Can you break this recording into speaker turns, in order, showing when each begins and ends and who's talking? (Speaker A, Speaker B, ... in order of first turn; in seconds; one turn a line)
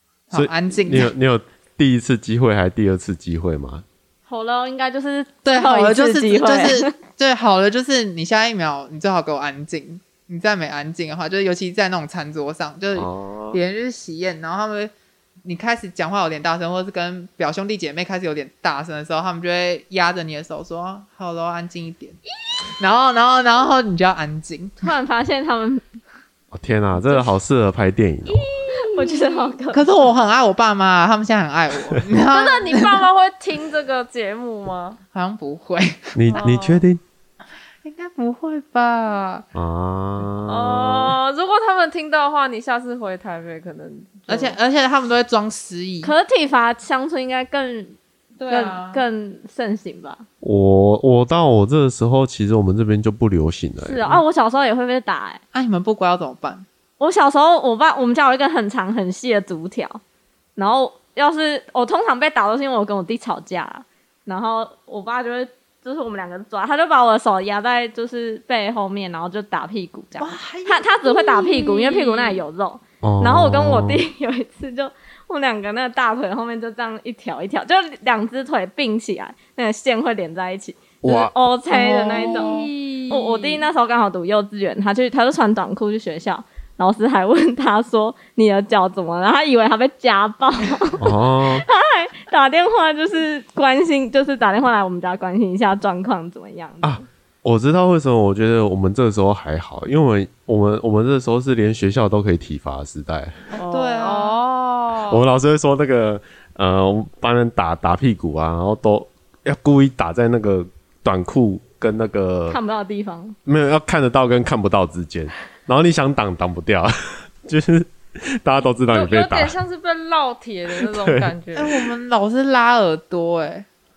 Speaker A: 0.3-1.1
Speaker B: 0.3-3.9
Speaker C: 4.3-6.9
Speaker A: 5.4-14.9
Speaker B: 12.9-13.6
Speaker A: 15.4-22.2
Speaker A: 22.8-24.9
Speaker C: 24.8-25.8
Speaker B: 26.5-28.4
Speaker D: 28.6-29.5
Speaker C: 28.7-29.9
Speaker A: 29.7-33.0
Speaker D: 32.3-35.0
Speaker A: 35.1-36.4
Speaker B: 36.1-37.0
Speaker D: 36.3-36.8
Speaker A: 37.8-39.4
Speaker B: 39.5-41.1
Speaker D: 40.5-44.6
Speaker A: 44.3-46.1
Speaker C: 46.0-50.2
Speaker A: 48.4-49.0
Speaker B: 50.4-54.2
Speaker C: 53.8-55.4
Speaker A: 55.5-56.6
Speaker C: 57.0-60.0
Speaker C: 60.6-97.0
Speaker A: 70.2-72.4
Speaker B: 73.0-74.0
Speaker B: 81.0-81.3
Speaker D: 81.7-83.6
Speaker B: 91.0-91.6
Speaker B: 96.8-103.3
Speaker C: 103.5-104.2
Speaker A: 103.7-104.4
Speaker D: 103.9-105.2
Speaker B: 105.1-112.6
Speaker C: 112.5-113.4
Speaker B: 113.5-119.6
Speaker D: 118.9-121.7
Speaker B: 120.7-121.3
Speaker A: 121.5-123.7